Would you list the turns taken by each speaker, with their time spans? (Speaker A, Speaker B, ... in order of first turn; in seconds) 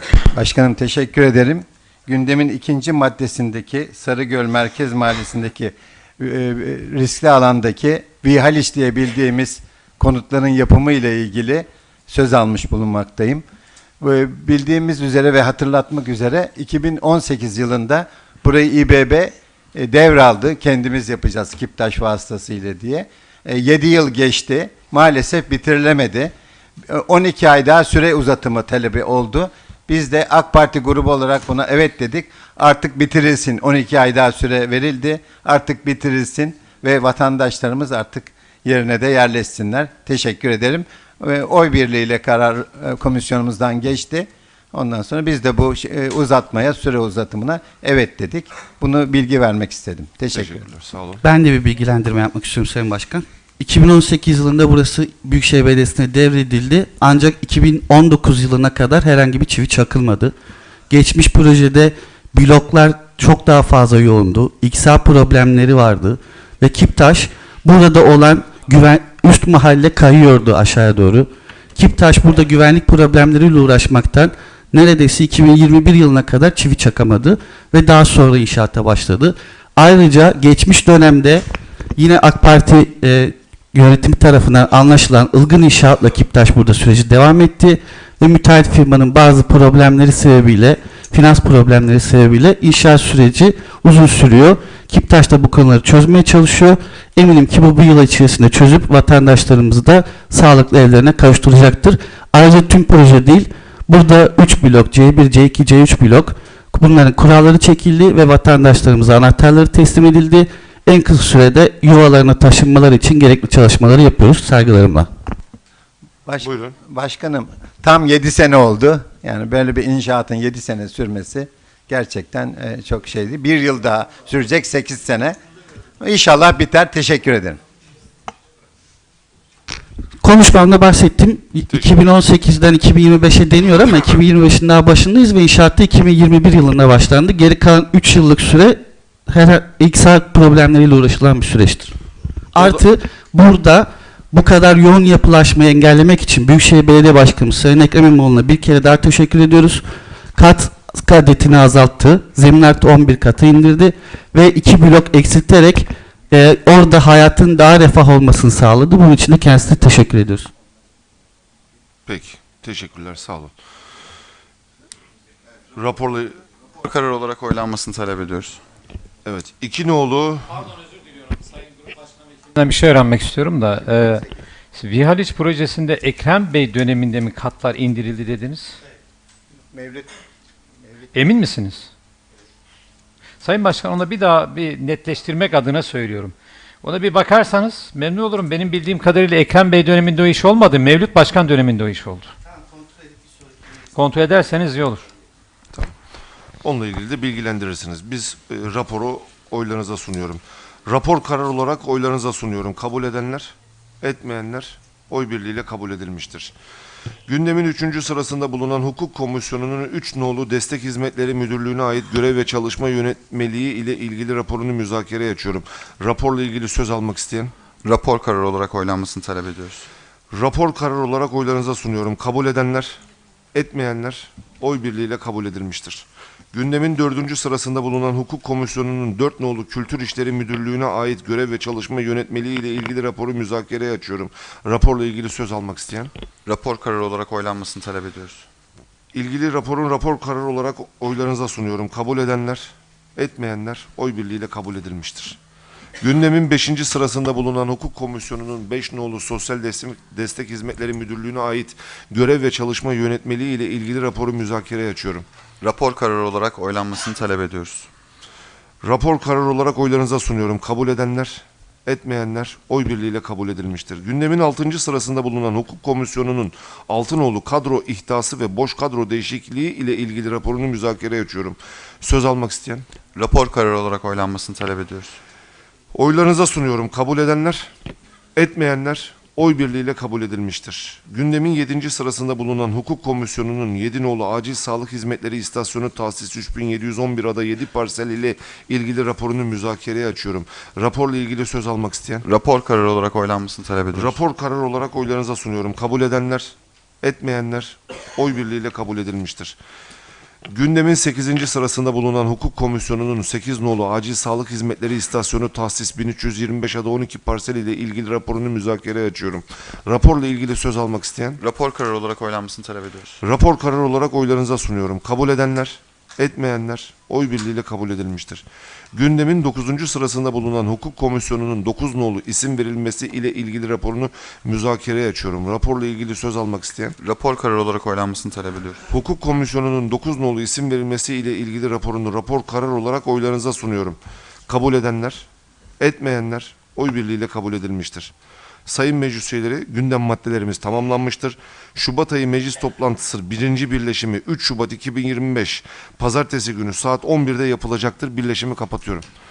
Speaker A: 0.3-13.4, 14.0-26.3, 26.9-50.6, 116.3-125.4, 126.0-127.6, 179.7-180.1
Speaker B: 50.3-51.2, 116.4-116.8, 162.1-163.5, 165.7-166.4, 169.2-170.6, 196.6-206.5, 207.3-217.5, 220.3-223.0, 223.5-236.1, 239.1-245.4, 246.0-255.3, 258.8-272.9, 275.9-277.7, 278.4-292.2, 293.9-299.6, 300.5-311.4, 313.2-327.0, 328.9-335.3, 335.8-338.1, 338.7-349.1
Speaker C: 51.2-60.4, 60.9-81.5, 82.0-115.1, 130.2-141.9, 142.5-160.5
Speaker D: 166.8-168.6, 217.8-219.9, 236.5-238.5, 255.6-257.9, 273.2-275.2, 292.2-294.2, 311.4-313.2, 327.0-328.8
Speaker E: 172.5-178.8, 181.1-181.9, 183.4-192.3, 193.9-195.1